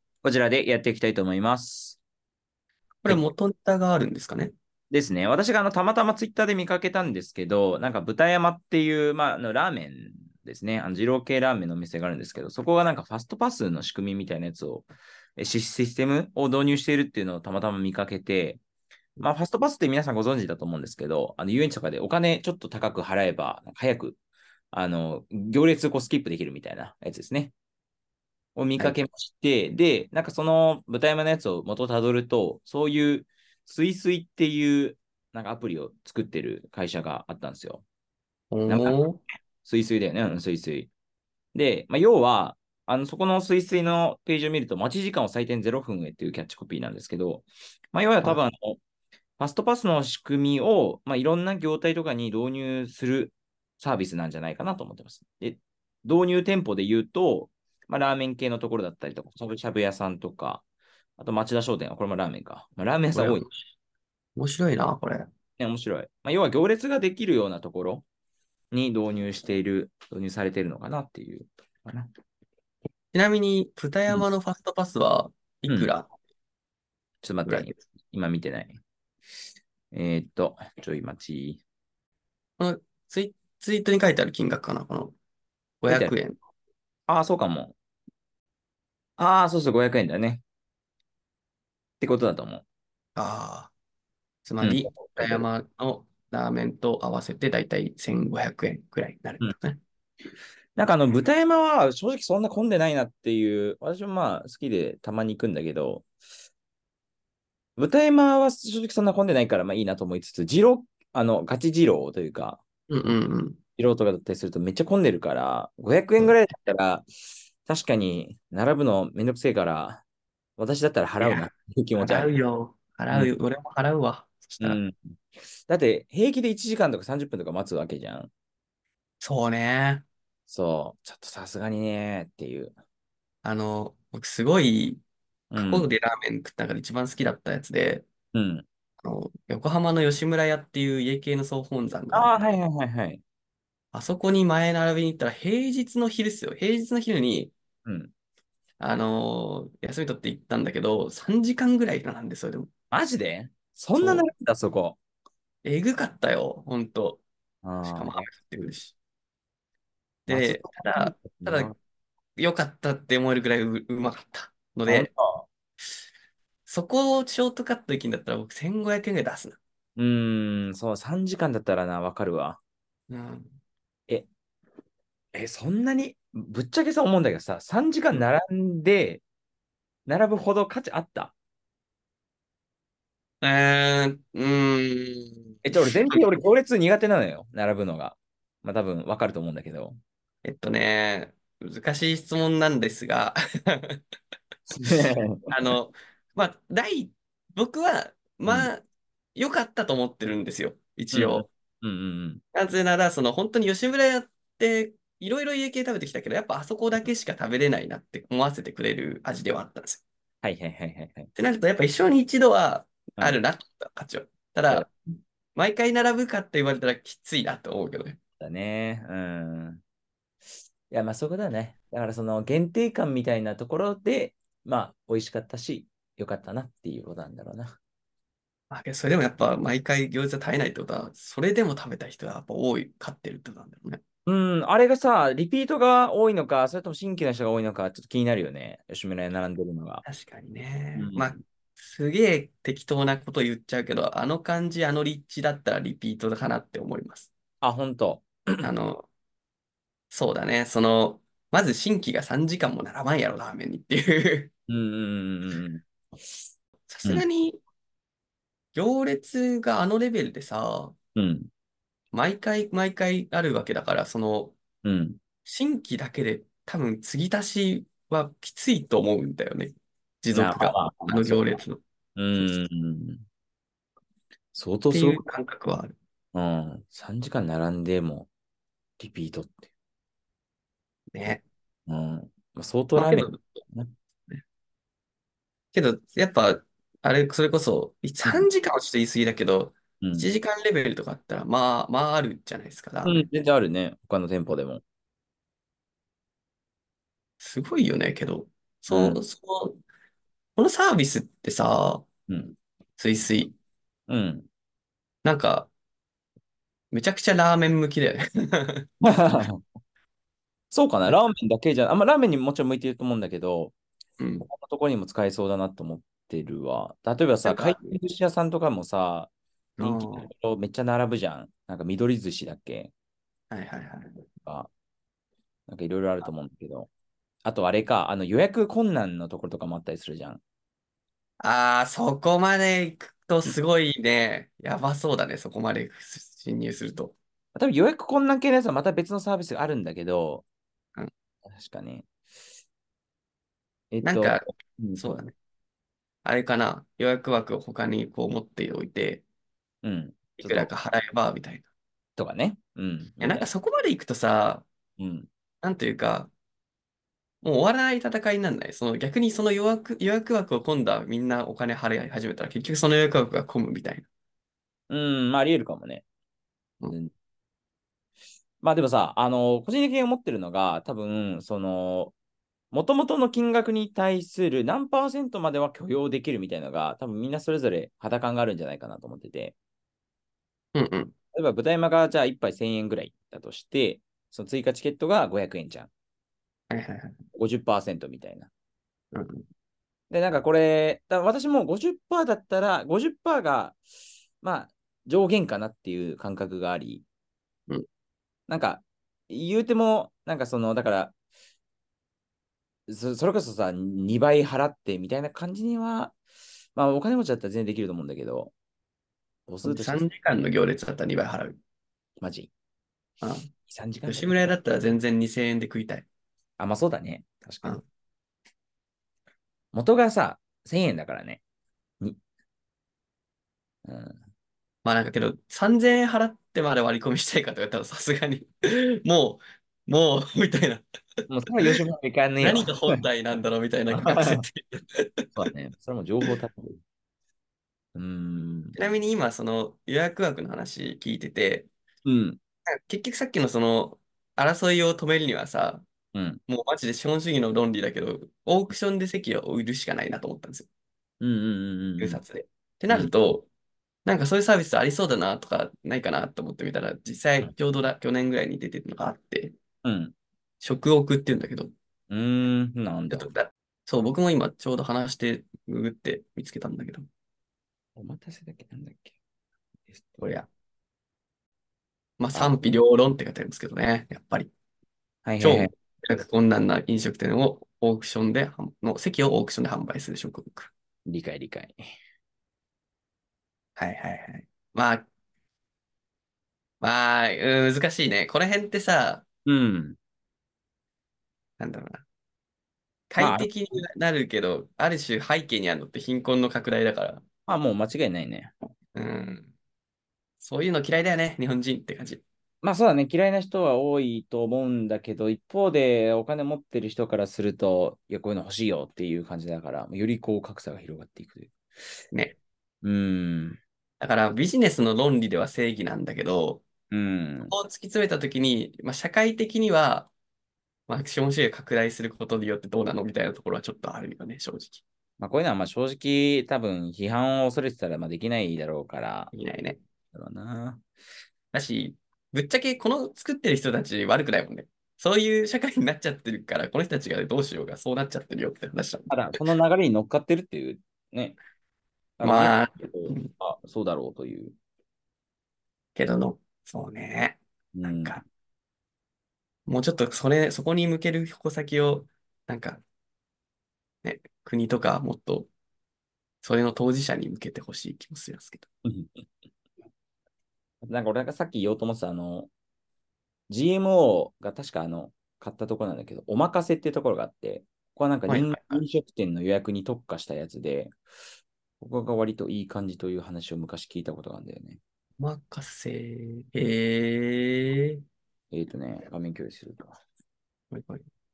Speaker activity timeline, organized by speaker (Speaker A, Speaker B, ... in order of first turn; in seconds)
Speaker A: 0.2-2.0, 4.9-18.6, 19.2-24.2, 24.7-27.5, 28.6-37.8, 38.7-39.0, 39.6-40.9, 41.5-48.8, 49.4-60.6, 61.2-63.5, 65.6-68.1, 68.7-72.1, 77.2-78.8, 79.9-81.6, 85.9-86.2, 87.1-87.8, 89.2-90.4, 92.0-92.6, 94.6-95.5, 100.8-106.1, 107.8-112.6, 113.8-117.1, 117.7-120.0, 120.6-122.3, 124.6-128.3, 130.5-132.8, 135.5-135.9, 138.3-138.7, 142.1-143.2, 147.8-148.1, 152.9-155.0, 157.6-158.3, 160.3-161.8, 164.9-165.5, 170.0-172.6, 175.3-179.2, 180.1-181.3, 185.6-190.0, 194.7-195.5, 201.1-202.4, 210.4-211.3, 218.4-219.8, 220.9-227.8, 234.3-240.0, 241.0-241.4, 247.6-248.7, 254.7-256.4, 261.1-261.5, 264.8-265.2, 270.3-271.6, 272.2-273.2, 274.5-275.2, 276.3-278.3, 279.0-279.7, 281.9-283.9, 290.0-290.3, 293.0-294.8, 298.9-299.2, 302.3-302.6, 304.1-304.5, 309.0-309.6, 310.7-313.8, 314.4-322.9, 324.4-324.7, 325.7-326.9, 327.4-330.4, 337.6-340.4, 341.5-342.1, 343.9-345.1, 349.8-350.7, 352.2-353.5, 355.0-355.3, 364.9-366.0, 368.6-372.1, 372.7-379.6, 381.3-385.9, 387.4-388.5, 390.1-393.8, 394.4-397.1, 398.5-401.1, 402.9-406.1, 406.8-408.5, 409.5-410.1, 412.2-412.5, 413.6-414.5, 416.6-417.8, 419.7-421.4, 423.9-424.2, 431.3-432.7, 433.9-434.5, 435.4-436.8, 437.9-438.8, 442.1-442.4, 446.1-446.4, 451.2-452.2, 459.8-460.1, 462.1-463.3, 468.0-469.2, 469.9-470.2, 472.3-472.6, 475.2-475.7, 481.1-481.9, 489.5-490.0, 493.2-493.5, 497.5-498.6, 502.6-511.6, 512.8-513.6, 516.9-517.5, 525.2-529.3, 530.1-530.8, 539.1-541.4, 542.2-544.5, 547.7-548.2, 558.9-559.3, 560.8-562.5, 563.5-571.0, 571.8-574.8, 578.5-580.0
Speaker B: 3.0-4.5, 38.5-39.2, 63.1-63.5, 64.4-65.3, 73.1-76.1, 77.5-77.8, 82.6-85.2, 85.8-86.4, 93.2-93.7, 94.5-99.8, 112.9-113.6, 121.2-124.8, 129.2-130.1, 133.4-135.0, 135.6-138.1, 139.0-142.3, 143.9-147.5, 148.8-152.7, 154.0-154.3, 155.6-157.2, 157.8-158.9, 160.3-161.7, 162.4-165.1, 166.7-169.6, 173.1-173.6, 183.4-186.3, 190.4-194.0, 195.5-198.8, 199.4-201.5, 202.5-210.0, 211.4-214.9, 215.6-218.2, 228.7-234.0, 240.1-247.3, 248.6-249.1, 250.1-254.5, 256.9-257.6, 258.8-261.0, 262.1-264.6, 265.4-269.7, 270.2-271.8, 274.9-276.0, 281.1-281.4, 283.0-283.6, 285.7-293.3, 297.4-299.8, 300.6-302.1, 303.0-303.5, 305.2-305.7, 306.9-308.9, 314.2-314.5, 317.4-318.0, 319.8-320.3, 323.5-324.2, 331.4-337.1, 344.0-345.4, 346.2-349.2, 350.4-351.7, 353.2-354.7, 355.6-356.3, 357.4-364.1, 380.8-381.1, 386.7-387.2, 389.1-389.4, 409.6-411.6, 413.2-413.5, 414.1-416.1, 424.9-430.8, 432.4-435.4, 438.8-441.7, 442.7-445.9, 446.5-450.7, 452.0-453.5, 454.1-459.6, 460.6-461.7, 463.1-467.1, 470.2-470.5, 472.2-474.5, 475.4-480.7, 483.8-485.1, 486.8-489.2, 491.6-492.0, 493.1-497.2, 498.9-499.5, 500.4-502.2, 514.0-516.6, 517.5-520.1, 520.9-524.8, 529.3-529.8, 531.5-539.1, 542.2-543.3, 546.0-547.4, 547.9-548.2, 549.7-552.8, 554.0-555.5, 556.4-558.7, 568.3-568.8, 575.2-578.0, 580.7-581.0